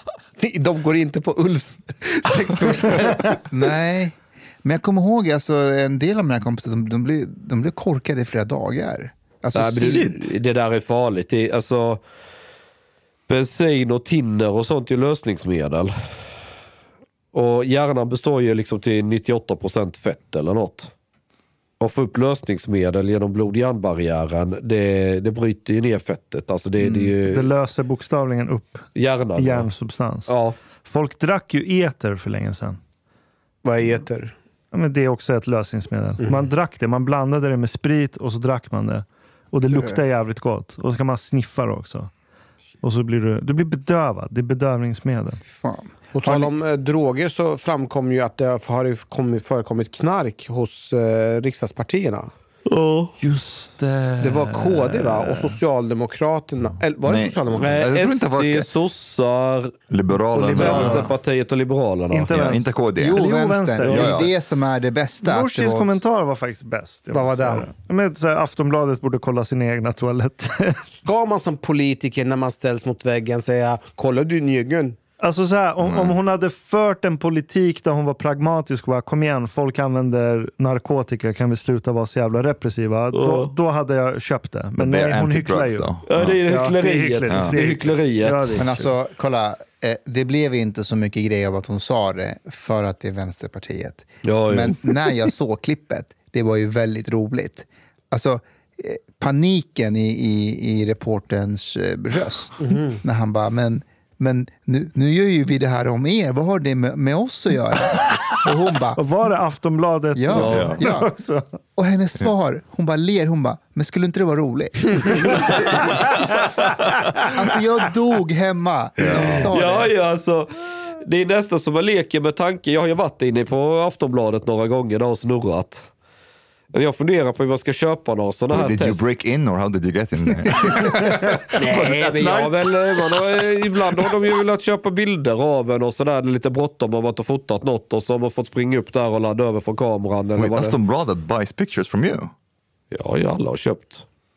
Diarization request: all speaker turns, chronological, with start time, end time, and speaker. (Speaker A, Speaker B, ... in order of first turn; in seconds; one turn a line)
Speaker A: 0.4-3.4
Speaker B: 3.5-10.2
Speaker C: 9.5-12.0
Speaker C: 13.3-15.9
Speaker C: 17.3-20.9
Speaker C: 21.8-27.5
Speaker D: 27.2-30.3
Speaker C: 28.9-29.7
Speaker C: 30.3-30.5
Speaker D: 30.8-32.8
Speaker A: 33.6-34.3
Speaker D: 34.7-42.1
Speaker A: 36.2-36.5
Speaker B: 39.7-40.0
Speaker D: 42.8-45.4
Speaker B: 45.5-46.0
Speaker A: 46.1-52.3
Speaker C: 52.7-53.1
Speaker D: 53.2-55.5
Speaker A: 54.2-57.8
Speaker E: 57.0-58.7
Speaker C: 57.6-59.7
Speaker E: 59.9-61.0
Speaker D: 60.3-61.1
Speaker C: 60.5-62.3
Speaker D: 62.1-64.3
Speaker E: 62.3-63.2
Speaker B: 63.0-66.0
Speaker E: 63.9-64.3
Speaker D: 65.2-70.8
Speaker A: 67.1-67.7
Speaker A: 71.0-75.0
Speaker D: 75.2-85.9
Speaker E: 75.8-76.2
Speaker C: 83.1-83.5
Speaker E: 84.8-86.4
Speaker C: 86.1-88.7
Speaker D: 86.5-88.9
Speaker B: 88.6-109.0
Speaker C: 94.2-94.8
Speaker A: 102.6-103.0
Speaker D: 109.0-111.4
Speaker B: 110.1-111.1
Speaker C: 110.3-110.7
Speaker E: 110.4-110.8
Speaker B: 111.8-115.8
Speaker B: 117.3-119.9
Speaker E: 119.0-119.5
Speaker C: 119.0-125.9
Speaker C: 126.7-129.0
Speaker E: 128.5-131.6
Speaker C: 131.5-140.8
Speaker E: 140.3-142.3
Speaker C: 142.9-144.0